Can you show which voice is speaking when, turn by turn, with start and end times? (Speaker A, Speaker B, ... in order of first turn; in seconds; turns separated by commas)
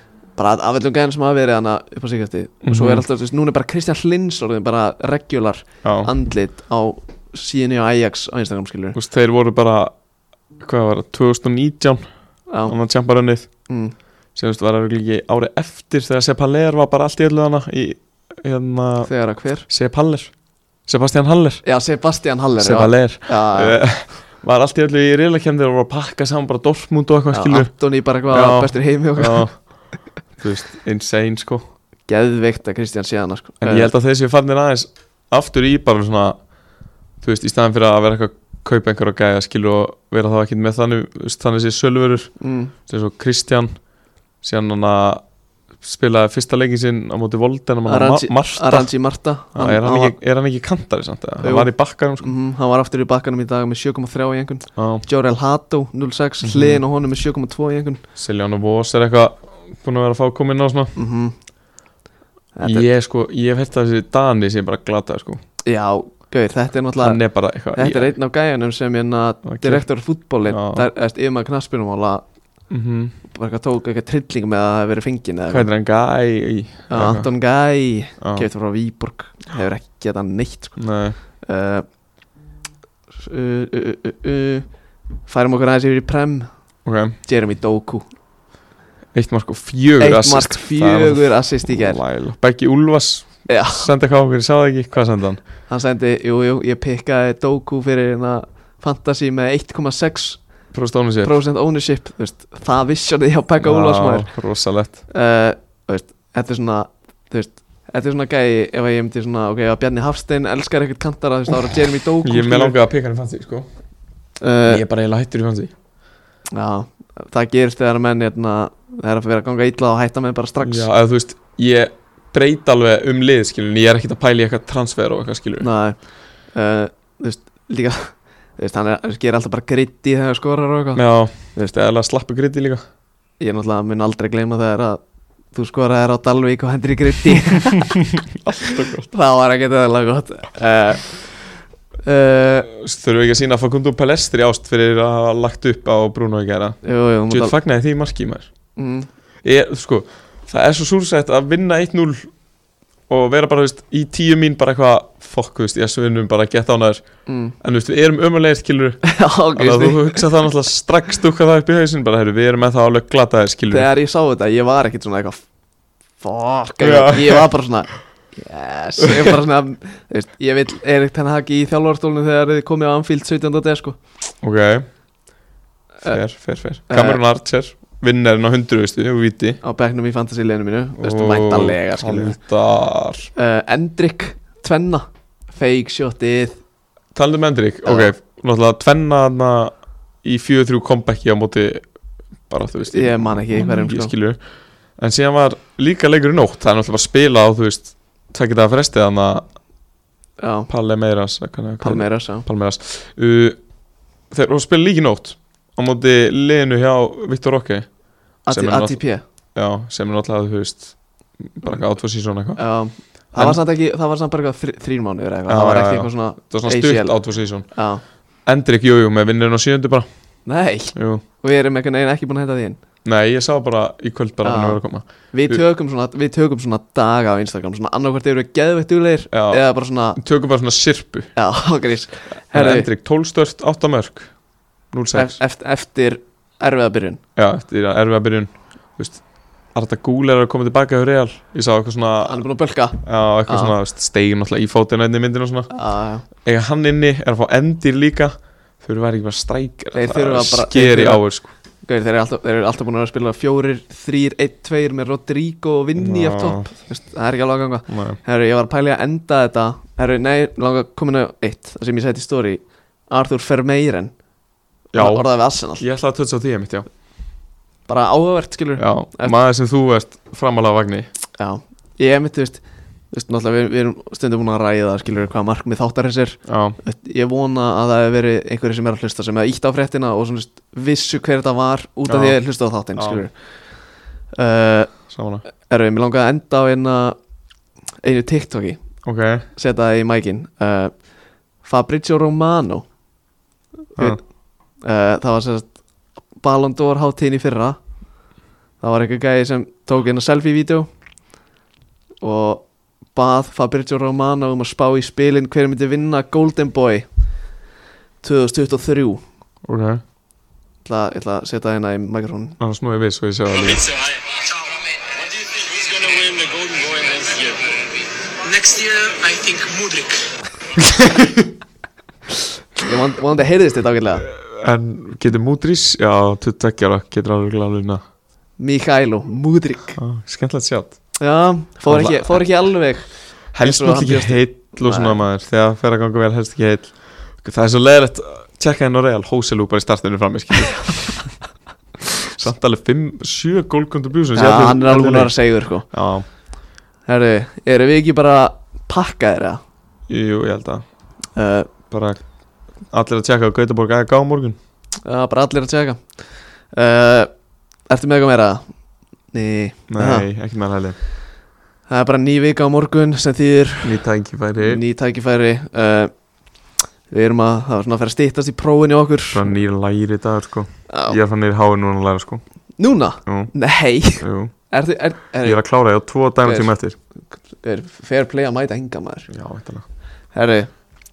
Speaker A: 0.4-9.0, Speaker B: 2.6-3.0, Speaker B: 5.8-6.1, Speaker B: 8.9-9.9, Speaker B: 10.6-12.1, Speaker A: 12.5-12.8, Speaker B: 12.7-13.5, Speaker A: 13.7-13.9, Speaker B: 14.3-19.1, Speaker A: 19.0-19.7, Speaker B: 19.7-20.3, Speaker B: 20.9-21.6, Speaker A: 21.6-23.8, Speaker B: 22.6-27.7, Speaker A: 27.3-29.7, Speaker B: 28.3-31.7, Speaker A: 32.1-33.9, Speaker B: 33.6-36.4, Speaker B: 37.2-42.3, Speaker A: 42.4-42.7, Speaker B: 42.9-43.8, Speaker B: 44.4-45.2, Speaker B: 45.8-48.9, Speaker A: 47.9-50.2, Speaker B: 49.5-52.3, Speaker A: 51.4-58.0, Speaker B: 54.8-55.0, Speaker B: 56.4-56.8, Speaker B: 58.2-60.9, Speaker A: 61.0-61.3, Speaker A: 62.5-62.9, Speaker B: 62.6-65.4, Speaker A: 65.7-67.2, Speaker B: 67.0-68.2, Speaker A: 67.7-72.2, Speaker B: 69.5-69.8, Speaker B: 70.5-70.9, Speaker B: 72.7-73.2, Speaker A: 73.2-75.7, Speaker B: 75.5-77.3, Speaker A: 76.9-80.8, Speaker B: 78.2-78.5, Speaker B: 80.8-81.2, Speaker A: 81.4-81.9, Speaker A: 83.2-84.7, Speaker A: 85.3-86.5, Speaker B: 86.8-87.2, Speaker A: 87.2-88.0, Speaker B: 89.1-95.4, Speaker A: 90.0-92.0, Speaker A: 93.5-93.9, Speaker A: 95.7-100.4, Speaker B: 100.7-101.4, Speaker A: 101.2-104.3, Speaker B: 103.6-105.0, Speaker A: 105.1-112.8, Speaker B: 112.2-113.7, Speaker A: 114.4-114.8, Speaker B: 114.7-115.7, Speaker A: 116.5-120.9, Speaker B: 120.6-125.7, Speaker A: 125.6-126.0, Speaker A: 126.5-131.0, Speaker B: 131.0-132.8, Speaker A: 133.4-135.0, Speaker A: 135.5-138.0, Speaker B: 138.3-139.1, Speaker A: 138.6-141.5, Speaker A: 142.1-142.7, Speaker B: 142.7-148.5, Speaker A: 146.8-147.6, Speaker A: 148.8-149.1, Speaker B: 149.4-152.3, Speaker B: 153.1-157.1, Speaker A: 157.3-157.6, Speaker B: 157.6-163.9, Speaker A: 159.0-160.3, Speaker A: 163.7-165.4, Speaker A: 166.2-174.0, Speaker B: 166.8-167.5, Speaker B: 169.0-169.3, Speaker B: 174.4-174.9, Speaker B: 176.0-179.6, Speaker A: 176.9-177.2, Speaker A: 179.6-182.4, Speaker B: 181.0-183.3, Speaker A: 183.3-186.6, Speaker B: 187.2-191.8, Speaker A: 187.8-188.1, Speaker B: 192.5-194.4, Speaker A: 192.9-194.1, Speaker B: 195.0-199.4, Speaker A: 200.4-200.7, Speaker B: 200.7-203.6, Speaker A: 201.8-202.5, Speaker B: 204.3-207.9, Speaker A: 208.5-209.2, Speaker B: 208.5-209.0, Speaker B: 209.6-212.6, Speaker A: 212.6-217.1, Speaker B: 215.5-217.7, Speaker A: 217.7-218.0, Speaker B: 218.4-220.1, Speaker A: 220.5-222.8, Speaker B: 220.9-221.2, Speaker B: 223.1-225.6, Speaker A: 224.4-230.2, Speaker B: 229.3-229.6, Speaker B: 230.2-231.3, Speaker A: 231.3-232.9, Speaker B: 232.5-234.3, Speaker B: 234.9-235.4, Speaker A: 235.1-237.2, Speaker B: 237.4-242.4, Speaker A: 242.3-243.7, Speaker B: 243.0-245.7, Speaker A: 245.7-246.3, Speaker B: 246.4-251.5, Speaker A: 249.9-251.3, Speaker A: 251.8-264.1, Speaker B: 256.0-256.7, Speaker B: 257.9-258.2, Speaker B: 264.9-266.9, Speaker A: 264.9-265.8, Speaker A: 267.9-269.4, Speaker B: 268.8-271.1, Speaker A: 271.4-283.3, Speaker B: 276.5-276.8, Speaker B: 282.1-282.4, Speaker B: 283.0-283.3, Speaker A: 284.4-284.9, Speaker B: 285.1-285.4, Speaker A: 285.6-287.2, Speaker A: 288.0-288.8, Speaker B: 289.1-289.4, Speaker A: 289.5-290.9, Speaker A: 291.6-292.9, Speaker A: 294.8-295.7, Speaker A: 296.4-297.8, Speaker A: 298.8-300.9, Speaker A: 302.2-307.1, Speaker A: 308.2-309.2, Speaker B: 309.7-310.0, Speaker A: 310.8-312.6, Speaker B: 312.6-313.9, Speaker C: 313.6-317.9, Speaker C: 318.4-320.3, Speaker B: 320.8-321.5, Speaker A: 322.8-324.3, Speaker B: 324.3-328.0, Speaker A: 328.6-330.0, Speaker B: 330.0-331.0, Speaker A: 331.2-335.2, Speaker B: 331.9-332.4, Speaker B: 333.5-341.3, Speaker B: 342.0-345.4, Speaker A: 344.4-345.9, Speaker B: 345.9-346.2, Speaker A: 347.1-349.6, Speaker B: 350.1-350.8, Speaker A: 351.4-351.7, Speaker B: 351.9-352.2, Speaker B: 352.9-354.6, Speaker A: 355.1-357.3, Speaker A: 357.9-358.6, Speaker A: 359.3-360.3, Speaker B: 359.9-361.0, Speaker A: 361.9-364.0, Speaker B: 363.8-364.8, Speaker A: 364.6-366.1, Speaker A: 367.1-369.5, Speaker B: 369.3-372.4, Speaker A: 370.9-371.2, Speaker A: 372.8-375.6, Speaker B: 373.3-373.5, Speaker B: 374.2-374.5, Speaker B: 375.4-377.0, Speaker A: 376.4-376.7, Speaker A: 377.6-379.3, Speaker B: 379.3-379.9, Speaker A: 380.3-380.7